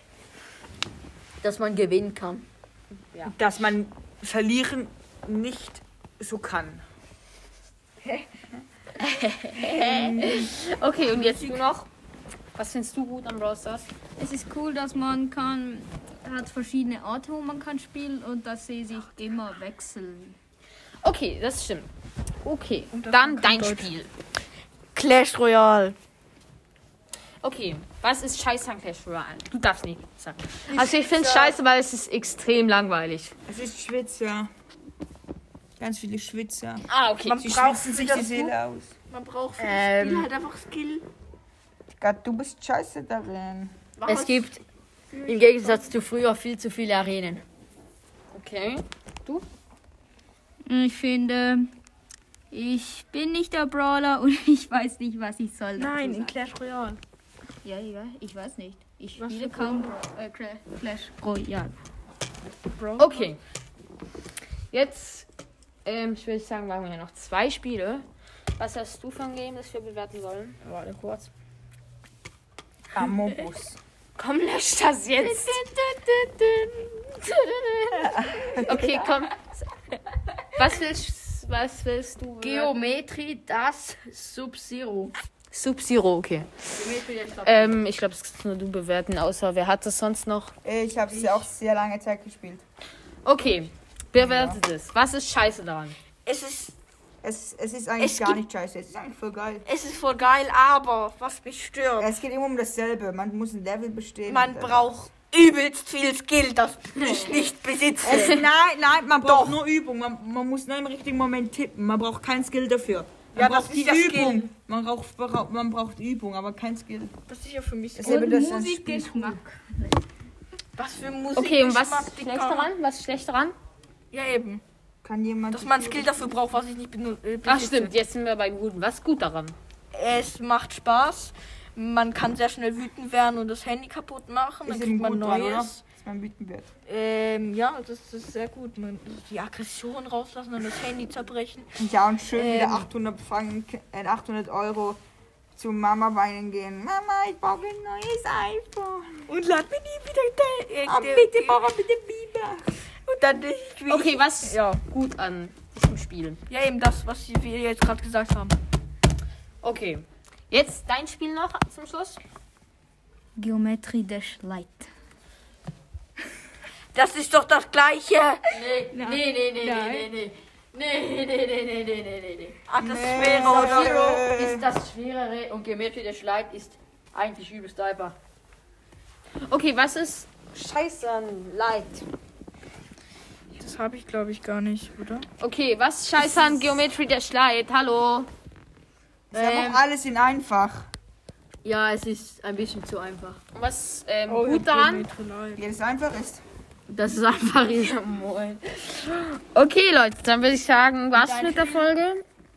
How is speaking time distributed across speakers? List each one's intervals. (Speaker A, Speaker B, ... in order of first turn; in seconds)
Speaker A: 1.4-2.4, 39.6-40.3, 44.0-44.6, 45.2-47.4, 70.6-71.3, 75.3-76.7, 82.4-85.1, 86.8-87.8, 168.5-172.6, 173.3-178.2, 189.3-189.8, 191.6-193.4, 196.9-197.9, 201.1-201.9
Speaker B: 3.2-6.8, 9.6-10.5, 33.5-34.5, 35.8-36.9, 37.4-38.9, 42.0-43.7, 72.9-73.8, 77.9-78.9, 90.6-92.6, 94.2-94.6, 97.2-99.6, 102.0-104.9, 108.0-117.1, 118.0-119.3, 125.0-126.3, 134.7-136.7, 141.8-145.0, 145.5-149.2, 150.8-152.7, 172.8-174.7, 189.3-190.9, 195.6-196.4
Speaker C: 9.5-11.9, 12.5-13.9, 21.0-21.9, 22.4-24.1, 27.4-33.3, 36.9-37.5, 48.3-49.4, 63.0-63.4, 64.7-65.3, 65.8-68.0, 68.6-70.6, 74.2-75.7, 78.1-79.5, 80.5-82.7, 85.5-86.8, 87.4-90.5, 93.2-96.0, 121.3-123.5, 127.5-129.6, 153.9-156.4, 159.6-162.2, 179.5-182.1, 185.4-188.3, 193.5-195.1, 197.7-202.2
Speaker D: 14.2-20.3, 50.6-51.7, 52.5-56.4, 57.6-61.7, 118.0-120.0, 163.3-164.9, 168.9-170.1
Speaker E: 22.9-23.9, 24.9-25.9, 30.7-31.6, 37.2-38.5, 39.1-41.0, 44.0-44.6, 45.1-45.9, 55.8-57.0, 59.2-60.0, 62.7-63.3, 96.2-96.7, 98.0-98.4, 99.7-102.1, 104.2-108.4, 109.2-109.6, 113.3-114.5, 117.3-118.4, 120.8-122.7, 124.1-124.6, 125.5-127.9, 129.9-135.8, 136.9-141.7, 142.3-142.9, 149.3-151.6, 153.1-154.8, 156.5-158.6, 166.9-168.5, 172.7-174.2, 183.6-185.2, 194.3-195.6